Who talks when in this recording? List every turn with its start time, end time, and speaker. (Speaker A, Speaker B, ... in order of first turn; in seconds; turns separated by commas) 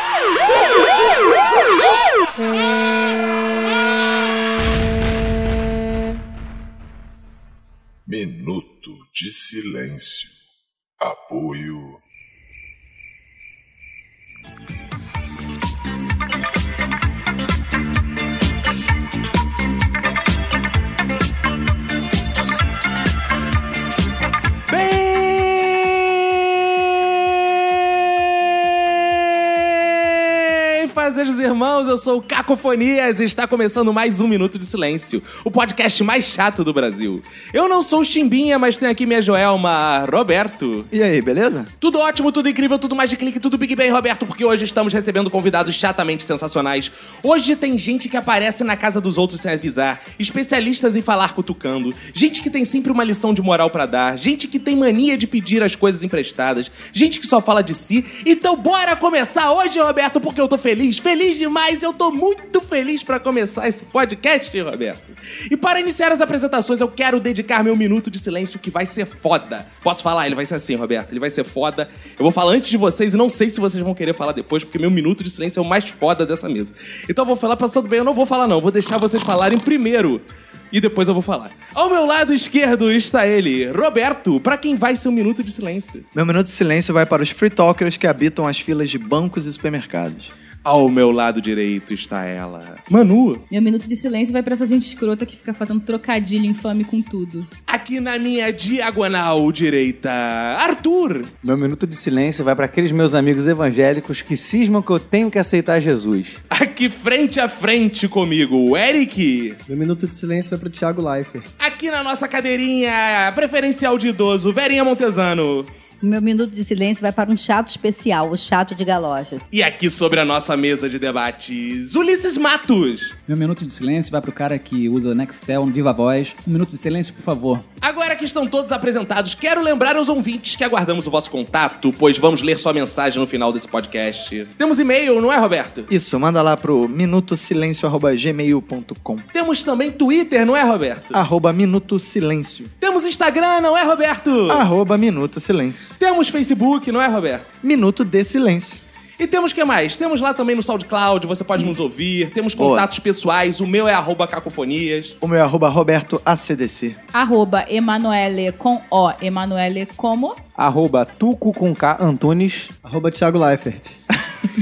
Speaker A: 8.1-10.4, Speaker A: 11.0-12.0, Speaker B: 24.7-40.9, Speaker C: 40.9-41.7, Speaker B: 41.8-86.1, Speaker C: 86.1-90.3, Speaker B: 90.7-93.4, Speaker D: 93.5-97.5, Speaker B: 97.7-101.3, Speaker E: 101.4-106.4, Speaker B: 106.5-109.6, Speaker F: 109.7-111.5, Speaker B: 111.6-115.7, Speaker G: 116.0-119.4, Speaker B: 119.5-123.2, Speaker H: 123.3-127.7, Speaker B: 127.8-135.9, Speaker C: 135.9-139.2, Speaker B: 139.3-141.2, Speaker C: 141.1-142.7, Speaker B: 142.8-144.6, Speaker C: 144.5-145.9, Speaker B: 146.0-147.5, Speaker C: 147.6-148.8, Speaker B: 149.2-155.2, Speaker C: 152.6-152.9, Speaker C: 155.2-157.0, Speaker D: 157.1-160.4, Speaker E: 160.6-162.7, Speaker F: 162.8-164.0